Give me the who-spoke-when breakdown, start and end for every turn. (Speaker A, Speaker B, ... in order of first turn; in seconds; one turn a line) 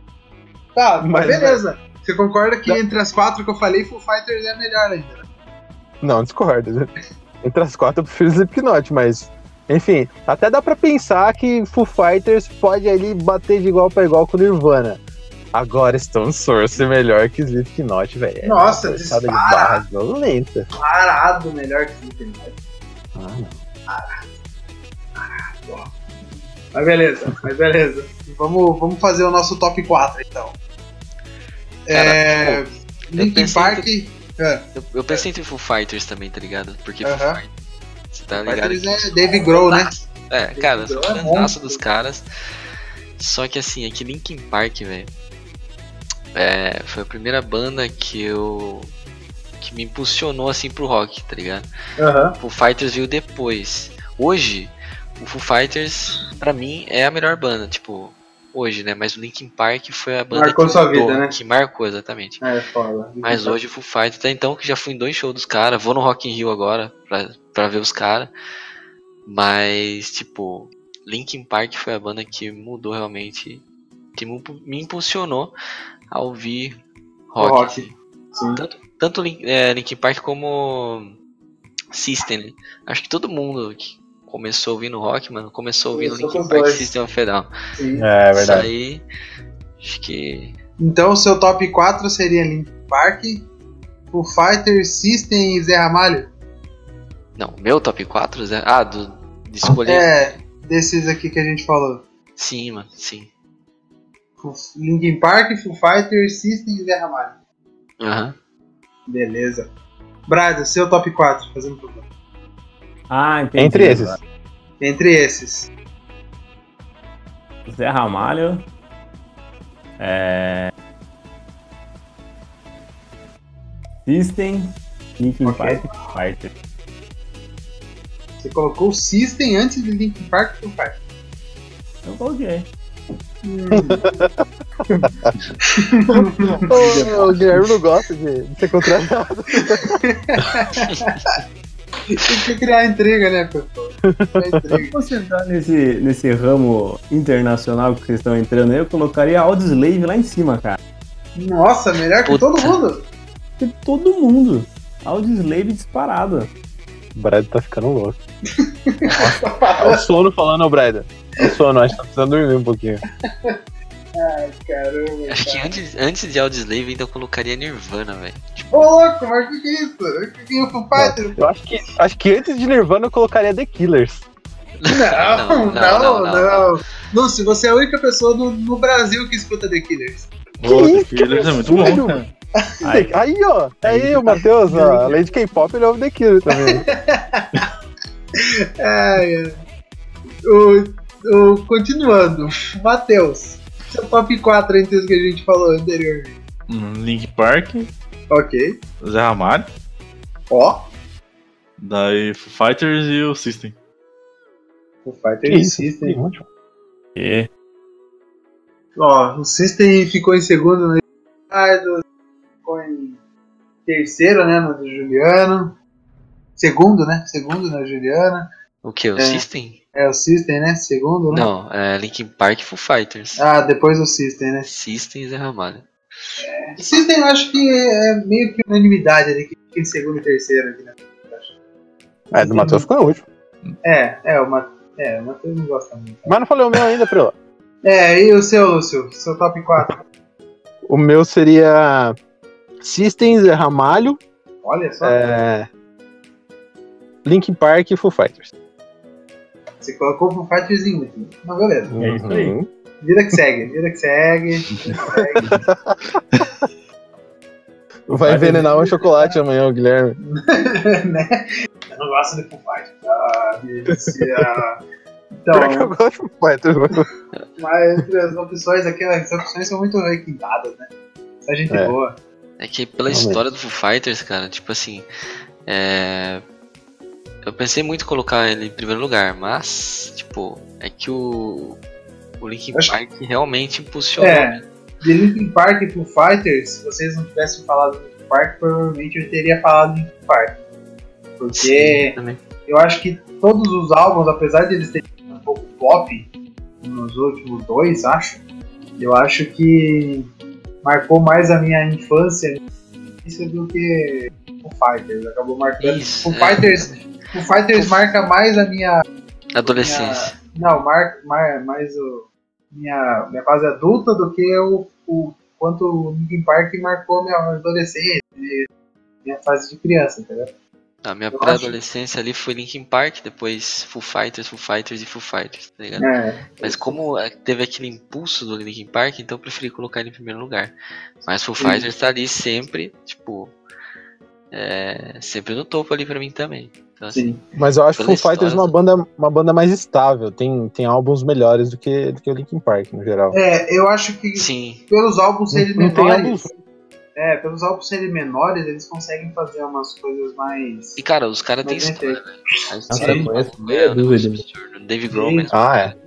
Speaker A: 0.7-5.2
Speaker B: 1.0-1.6
Speaker B: 6.0-6.9
Speaker B: 7.4-15.0
Speaker B: 15.5-20.7
Speaker A: 18.4-19.8
Speaker A: 20.8-22.5
Speaker B: 23.1-23.6
Speaker A: 23.9-24.2
Speaker A: 25.1-25.9
Speaker A: 26.7-30.6
Speaker A: 31.9-35.2
Speaker C: 31.9-33.9
Speaker C: 34.7-37.5
Speaker A: 37.0-37.4
Speaker C: 38.1-42.2
Speaker A: 38.4-40.0
Speaker A: 40.5-41.8
Speaker C: 43.2-45.1
Speaker C: 46.3-48.9
Speaker C: 49.6-51.7
Speaker A: 52.0-52.4
Speaker C: 52.4-62.4
Speaker A: 60.3-61.3
Speaker A: 62.4-63.5
Speaker C: 63.2-68.3
Speaker C: 69.2-73.6
Speaker C: 74.2-75.5
Speaker C: 76.1-76.8
Speaker C: 77.3-77.9
Speaker A: 77.4-78.6
Speaker C: 78.5-81.1
Speaker C: 81.9-87.5
Speaker A: 85.9-86.9
Speaker A: 87.8-88.0
Speaker B: 88.0-88.7
Speaker C: 88.3-89.0
Speaker C: 89.8-90.5
Speaker A: 90.8-93.5
Speaker A: 94.1-96.3
Speaker C: 97.3-100.4
Speaker A: 99.8-102.0
Speaker C: 102.4-103.3
Speaker A: 104.4-107.4
Speaker C: 108.0-108.3
Speaker A: 109.1-109.7
Speaker A: 110.3-112.0
Speaker D: 113.1-114.2
Speaker B: 113.6-114.2
Speaker A: 114.8-115.7
Speaker D: 117.7-118.7
Speaker D: 120.0-120.7
Speaker D: 124.0-126.5
Speaker A: 125.4-125.9
Speaker A: 128.4-131.0
Speaker D: 132.0-132.7
Speaker A: 133.4-134.2
Speaker B: 133.7-135.4
Speaker A: 135.7-137.4
Speaker B: 136.1-140.4
Speaker D: 136.8-137.3
Speaker A: 139.7-141.2
Speaker A: 142.1-145.0
Speaker B: 144.1-144.8
Speaker D: 144.9-150.8
Speaker A: 151.3-153.1
Speaker C: 152.2-152.8
Speaker D: 153.6-156.5
Speaker B: 157.1-158.2
Speaker A: 158.6-160.0
Speaker B: 159.1-163.0
Speaker A: 163.3-163.6
Speaker A: 164.1-165.7
Speaker C: 165.3-168.9
Speaker A: 168.7-171.4
Speaker B: 170.9-174.2
Speaker C: 174.8-176.8
Speaker A: 174.9-180.3
Speaker E: 180.6-182.3
Speaker B: 180.6-182.2
Speaker D: 182.8-183.1
Speaker B: 182.8-186.9
Speaker D: 183.8-184.2
Speaker A: 184.3-185.2
Speaker A: 186.5-187.7
Speaker A: 188.4-189.6
Speaker A: 190.5-196.4
Speaker E: 196.7-197.9
Speaker A: 198.3-198.8
Speaker E: 199.0-199.7
Speaker A: 200.5-200.9
Speaker E: 201.8-203.8
Speaker A: 205.0-206.2
Speaker B: 205.4-206.4
Speaker D: 207.2-207.5
Speaker A: 208.9-212.0
Speaker A: 212.6-213.2
Speaker A: 213.8-215.7
Speaker A: 216.6-218.5
Speaker C: 218.8-219.8
Speaker A: 219.2-221.5
Speaker C: 221.3-223.4
Speaker A: 223.4-224.7
Speaker C: 224.7-225.9
Speaker A: 226.4-231.5
Speaker B: 232.3-233.2
Speaker A: 232.3-232.9
Speaker A: 233.8-236.3
Speaker B: 236.2-237.3
Speaker A: 237.8-240.0
Speaker B: 240.9-242.1
Speaker B: 242.8-244.2
Speaker A: 244.6-245.2
Speaker B: 245.0-245.7
Speaker B: 247.2-248.5
Speaker A: 249.8-251.9
Speaker B: 251.9-252.7
Speaker D: 252.0-252.5
Speaker A: 253.0-255.6
Speaker B: 255.4-256.6
Speaker B: 258.1-260.2
Speaker D: 258.3-258.6
Speaker A: 258.3-259.4
Speaker A: 260.2-264.8
Speaker B: 263.9-264.6
Speaker A: 265.4-265.9
Speaker B: 265.5-267.1
Speaker A: 267.6-270.9
Speaker A: 271.4-272.2
Speaker B: 271.7-271.9
Speaker C: 272.6-275.1
Speaker B: 273.1-273.4
Speaker C: 275.7-276.4
Speaker C: 277.4-281.8
Speaker C: 282.4-284.6
Speaker A: 284.2-290.6
Speaker A: 291.4-298.4
Speaker C: 291.5-292.4
Speaker A: 299.0-300.3
Speaker A: 300.8-302.6
Speaker A: 303.2-309.0
Speaker C: 305.8-307.1
Speaker C: 307.7-308.1
Speaker C: 309.5-310.3
Speaker A: 309.7-318.7
Speaker A: 319.2-320.5
Speaker C: 321.0-326.1
Speaker A: 321.3-321.8
Speaker A: 326.0-327.0
Speaker C: 326.6-330.7
Speaker C: 331.2-333.5
Speaker A: 331.6-331.9
Speaker C: 334.5-337.3
Speaker A: 337.1-337.4
Speaker B: 337.6-343.4
Speaker C: 337.9-338.7
Speaker A: 343.3-346.6
Speaker C: 344.4-344.9
Speaker B: 345.5-346.5
Speaker A: 347.1-351.0
Speaker C: 351.0-355.9
Speaker A: 351.6-352.3
Speaker A: 352.9-353.3
Speaker D: 352.9-354.4
Speaker A: 355.1-355.6
Speaker B: 355.5-355.9